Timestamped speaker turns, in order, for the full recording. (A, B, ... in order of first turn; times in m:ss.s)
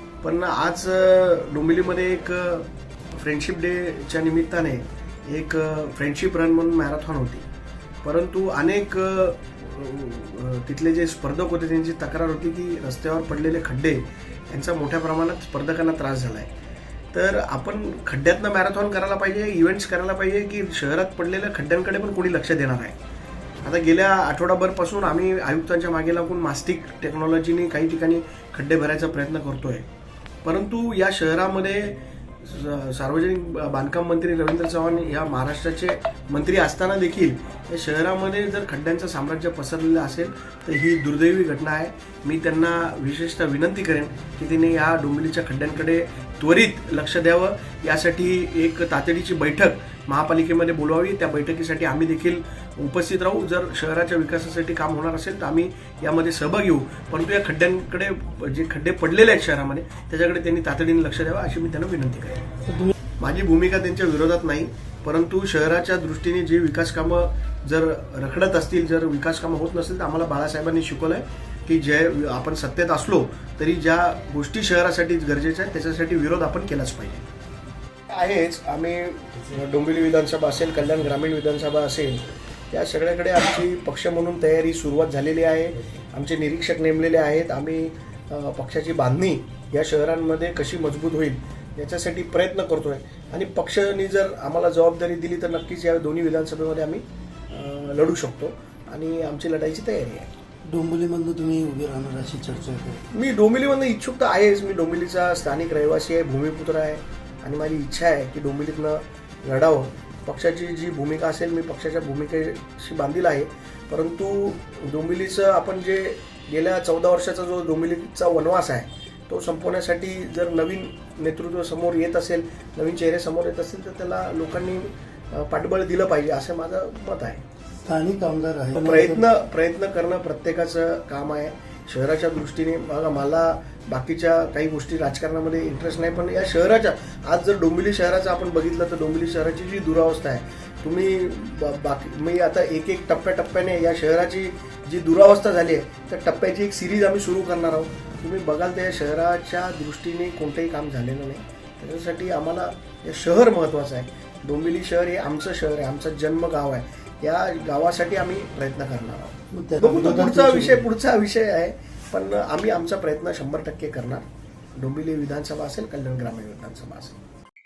0:00.2-0:07.4 A
0:08.0-0:16.5 A
0:17.1-0:23.0 A
0:23.6-0:29.9 A
0:30.4-1:02.5 A
1:03.2-1:17.3 A
1:18.1-1:40.3 A
1:40.7-1:43.0 B
1:43.1-2:07.4 A
2:07.8-2:09.2 B
2:08.8-2:44.2 A
2:39.5-2:40.8 B
2:44.8-2:47.2 A